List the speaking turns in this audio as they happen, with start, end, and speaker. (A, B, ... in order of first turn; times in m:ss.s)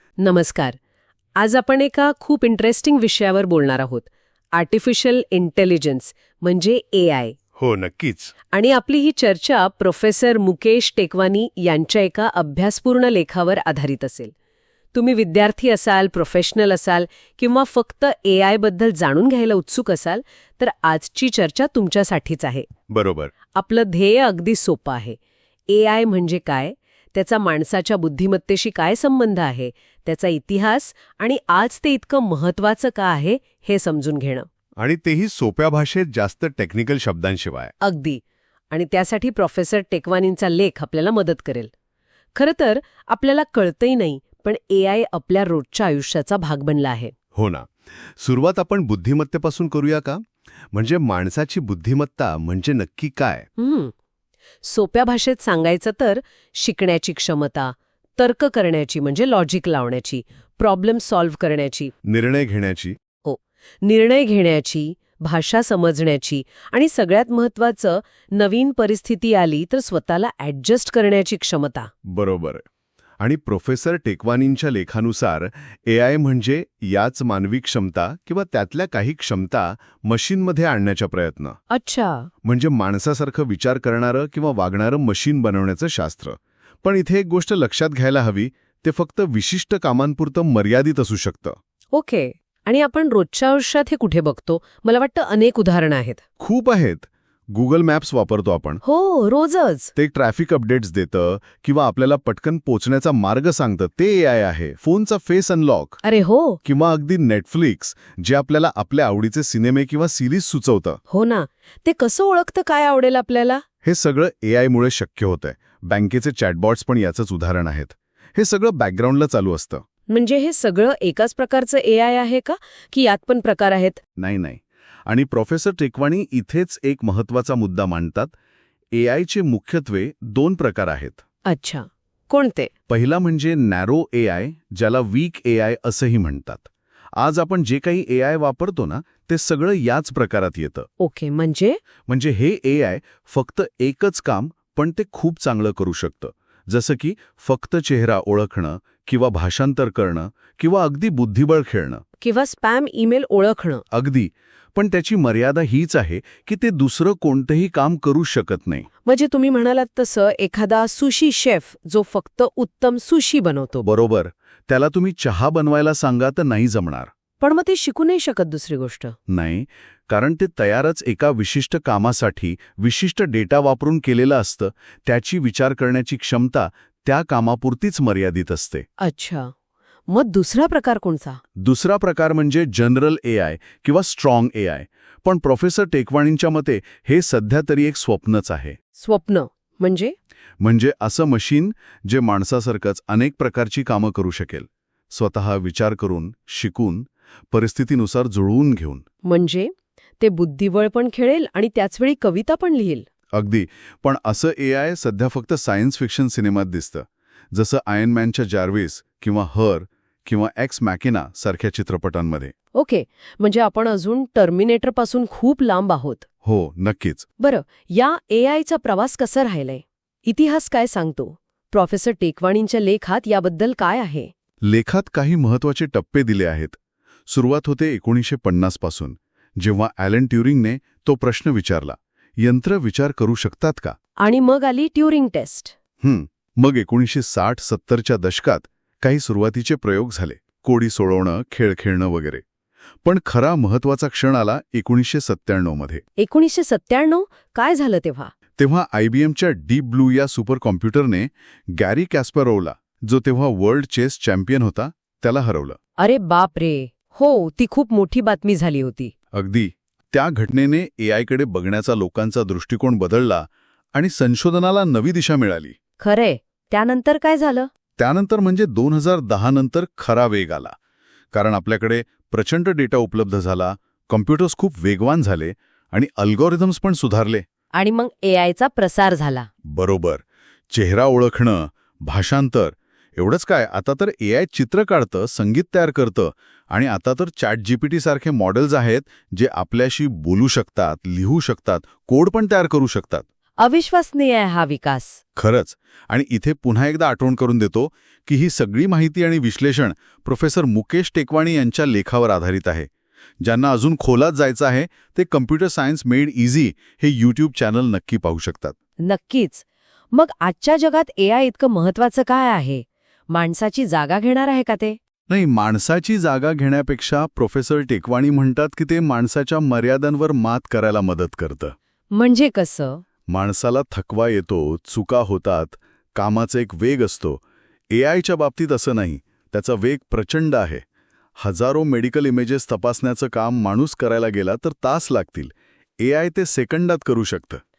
0:00.2-0:00.8 A
0:01.4-0:07.4 A
0:07.6-0:08.3 B
0:08.5-0:14.3 A
0:14.9-0:22.7 A
0:22.9-0:23.3 B
0:23.5-0:25.2 A
0:25.7-0:34.5 A
0:34.8-0:37.7 B
0:37.8-0:41.7 A
0:42.4-0:47.1 A
0:47.4-0:53.5 B
0:53.6-0:53.9 A
0:54.6-1:01.9 A
1:02.0-1:03.0 B
1:03.2-1:11.9 A
1:12.0-1:12.6 B
1:13.2-1:21.6 B
1:21.7-1:22.3 A
1:22.4-1:31.6 B
1:31.9-1:36.2 A
1:36.4-1:38.8 B
1:38.8-1:39.9 A
1:40.0-1:46.0 B
1:46.0-1:46.6 A
1:46.6-1:51.0 B
1:51.1-1:53.6 A
1:53.8-1:59.8 B
2:00.1-2:04.0 A
2:04.2-2:08.3 B
2:08.9-2:11.2 B
2:11.5-2:12.7 A
2:12.9-2:20.9 B
2:21.0-2:21.8 A
2:22.1-2:32.0 B
2:32.2-2:33.8 A
2:33.9-2:38.9 B
2:39.0-2:43.9 A
2:43.8-2:47.1 B
2:47.4-2:49.2 A
2:49.3-2:58.9 B
2:59.0-2:59.5 A
3:00.1-3:01.4 A
3:01.6-3:08.8 B
3:09.0-3:10.2 A
3:10.6-3:19.0 B
3:19.2-3:23.1 A
3:23.3-3:32.5 B
3:32.8-3:36.2 A
3:36.4-3:37.3 B
3:37.4-3:44.3 A
3:44.6-3:54.0 B
3:54.2-3:55.8 A
3:56.0-4:02.4 B
4:03.0-4:06.0 B
4:06.2-4:08.3 A
4:08.6-4:15.8 B
4:16.0-4:19.1 A
4:19.3-4:25.8 B
4:26.0-4:27.7 A
4:28.0-4:30.7 B
4:31.3-4:37.4 B
4:37.7-4:39.5 A
4:39.7-4:53.2 B
4:53.6-4:55.2 A
4:55.4-5:02.9 B
5:03.4-5:08.8 B
5:09.0-5:15.0 A
5:15.3-5:21.8 B
5:22.1-5:23.0 A
5:23.3-5:27.4 B
5:27.9-5:30.8 B
5:31.4-5:37.6 B